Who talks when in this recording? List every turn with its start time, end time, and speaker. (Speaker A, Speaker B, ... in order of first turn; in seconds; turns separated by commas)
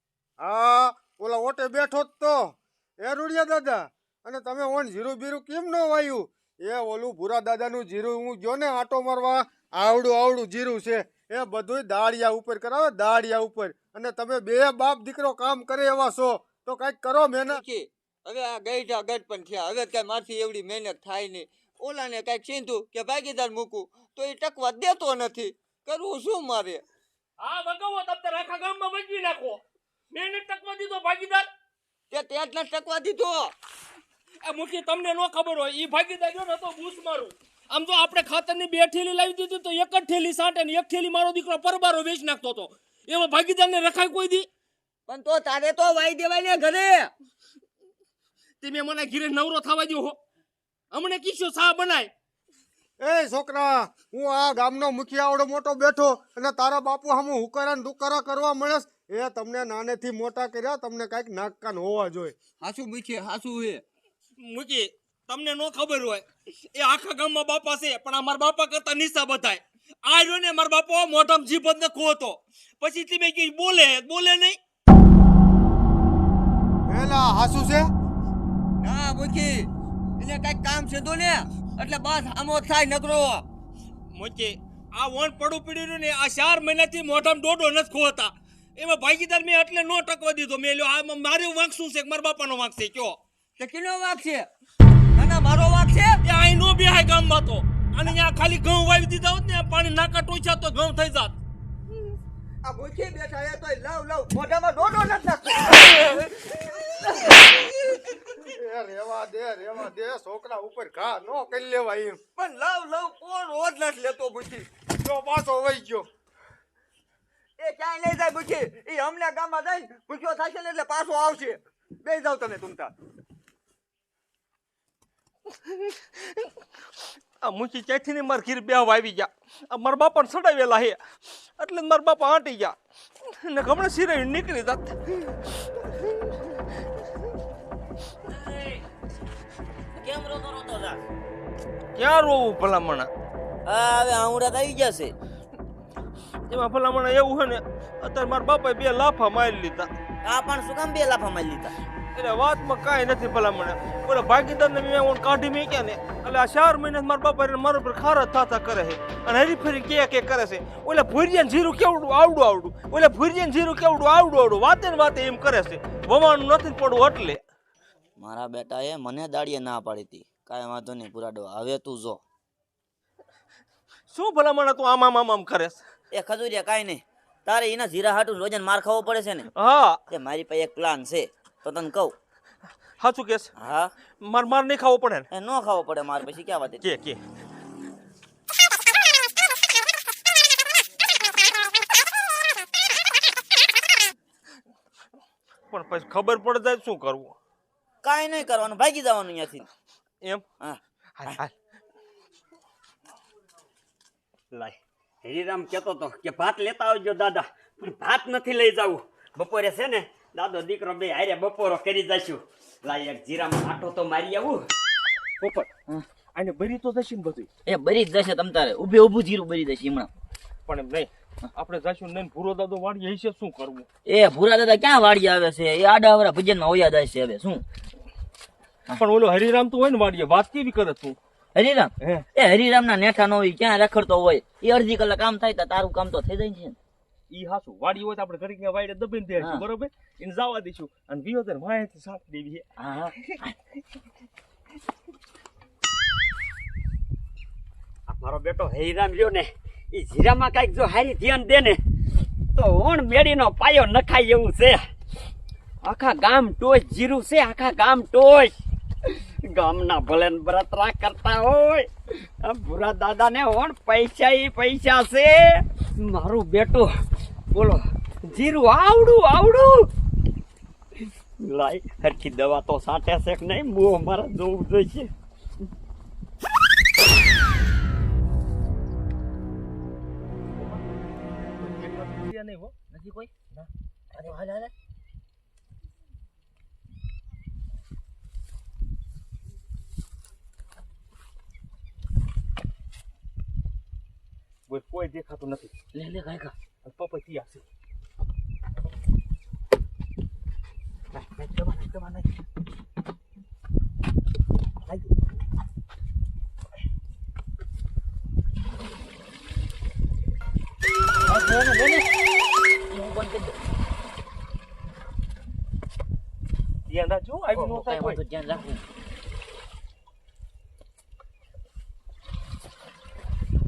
Speaker A: 0.4-17.6, Speaker B: 17.5-26.8, Speaker C: 27.4-29.6, Speaker C: 30.1-31.5, Speaker B: 32.1-33.5, Speaker C: 34.4-44.5, Speaker B: 45.1-47.1, Speaker C: 48.6-50.2, Speaker C: 50.9-52.1, Speaker A: 53.0-62.3, Speaker B: 62.6-63.8, Speaker C: 64.4-74.6, Speaker A: 76.9-77.9, Speaker B: 78.8-83.4, Speaker C: 84.1-93.2, Speaker B: 93.6-94.5, Speaker B: 95.2-96.2, Speaker C: 96.2-101.3, Speaker B: 102.6-106.5, Speaker A: 108.5-112.2, Speaker B: 112.4-114.7, Speaker A: 115.0-116.1, Speaker B: 117.6-122.9, Speaker C: 127.4-131.0, Speaker C: 131.6-132.7, Speaker C: 133.4-135.3, Speaker D: 138.3-138.8, Speaker D: 139.9-141.0, Speaker C: 141.9-143.1, Speaker D: 143.7-145.1, Speaker C: 146.5-149.9, Speaker D: 150.2-151.7, Speaker C: 152.1-167.4, Speaker D: 168.2-172.2, Speaker C: 174.1-175.8, Speaker D: 176.1-179.5, Speaker C: 179.5-180.0, Speaker D: 180.1-182.2, Speaker C: 183.0-183.5, Speaker D: 183.6-183.9, Speaker C: 184.2-185.3, Speaker D: 185.3-186.8, Speaker C: 186.8-187.2, Speaker C: 195.7-197.3, Speaker D: 198.0-199.7, Speaker D: 200.6-201.4, Speaker C: 201.2-201.5, Speaker E: 204.5-214.7, Speaker C: 215.4-215.7, Speaker C: 216.3-217.5, Speaker D: 217.7-220.1, Speaker C: 220.7-223.8, Speaker D: 224.1-227.6, Speaker C: 229.0-231.2, Speaker D: 231.5-236.8, Speaker C: 232.0-232.2, Speaker C: 237.3-242.6, Speaker D: 242.8-243.5, Speaker E: 248.1-251.8, Speaker E: 252.5-254.8, Speaker E: 255.8-258.5, Speaker E: 259.1-261.9, Speaker E: 262.4-266.9, Speaker E: 267.5-269.9, Speaker E: 271.4-275.1, Speaker C: 281.5-282.7, Speaker D: 282.9-283.3, Speaker D: 284.1-284.7, Speaker C: 294.7-295.7, Speaker D: 295.9-296.5, Speaker C: 296.8-297.6, Speaker C: 301.1-302.3, Speaker C: 304.9-305.1, Speaker D: 311.3-312.0, Speaker D: 312.9-313.6, Speaker C: 316.9-318.2, Speaker D: 317.5-318.8